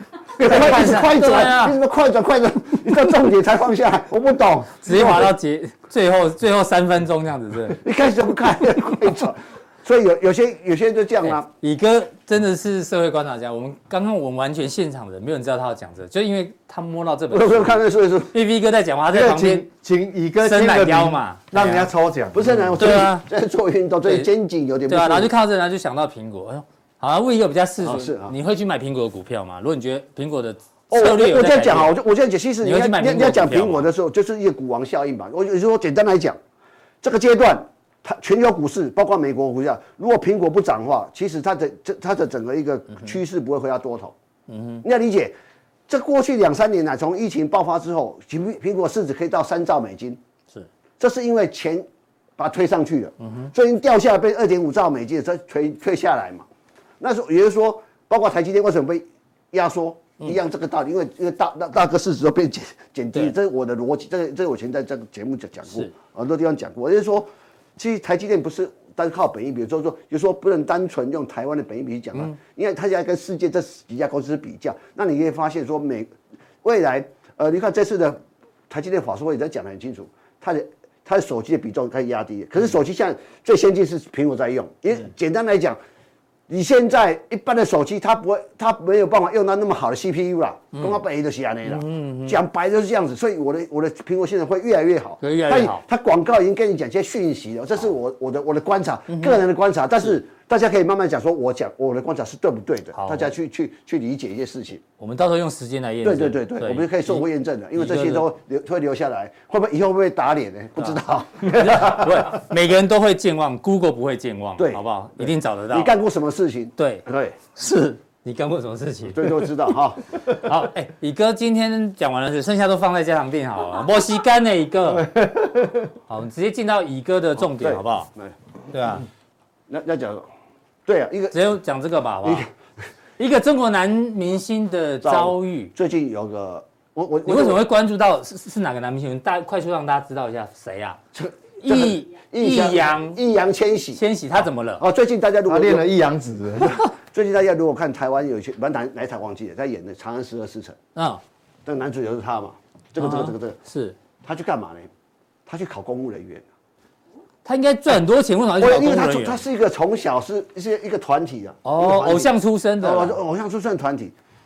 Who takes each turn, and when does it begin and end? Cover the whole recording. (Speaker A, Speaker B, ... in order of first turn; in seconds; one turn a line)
Speaker A: 0.3-5.3
Speaker B: 0.4-1.8
Speaker B: 4.8-7.8
Speaker A: 7.7-11.5
Speaker B: 11.2-19.7
Speaker A: 17.3-18.3
Speaker C: 19.1-22.4
Speaker B: 20.4-21.9
Speaker A: 22.3-25.3
Speaker B: 22.5-23.3
Speaker B: 24.9-31.9
Speaker A: 27.8-28.3
Speaker A: 30.9-36.4
Speaker B: 32.6-33.9
Speaker A: 37.0-44.1
Speaker B: 44.5-44.8
Speaker A: 44.8-45.3
Speaker A: 45.9-50.2
Speaker A: 51.0-51.9
Speaker A: 52.4-56.5
Speaker B: 53.2-53.5
Speaker A: 57.0-85.8
Speaker B: 65.7-65.9
Speaker A: 86.5-104.8
Speaker B: 90.7-91.0
Speaker B: 91.7-92.4
Speaker B: 95.2-95.8
Speaker B: 99.1-99.4
Speaker B: 102.9-103.3
Speaker B: 105.0-108.3
Speaker A: 106.0-112.3
Speaker B: 110.8-115.9
Speaker A: 114.6-117.4
Speaker B: 116.8-119.5
Speaker A: 119.1-120.0
Speaker B: 120.2-125.1
Speaker C: 125.0-125.8
Speaker B: 126.1-128.1
Speaker A: 127.5-128.3
Speaker B: 128.7-129.1
Speaker A: 129.7-130.3
Speaker A: 130.8-131.3
Speaker B: 131.3-132.5
Speaker A: 132.2-132.5
Speaker B: 133.2-135.7
Speaker A: 135.0-137.6
Speaker B: 137.2-141.0
Speaker A: 141.1-144.0
Speaker B: 141.6-143.2
Speaker B: 143.9-144.8
Speaker A: 144.8-145.9
Speaker C: 145.4-146.8
Speaker A: 146.7-150.8
Speaker B: 150.9-151.2
Speaker A: 151.6-153.6
Speaker B: 153.0-153.9
Speaker A: 154.2-154.9
Speaker A: 155.5-156.4
Speaker B: 157.4-159.4
Speaker A: 158.6-164.1
Speaker B: 161.6-163.2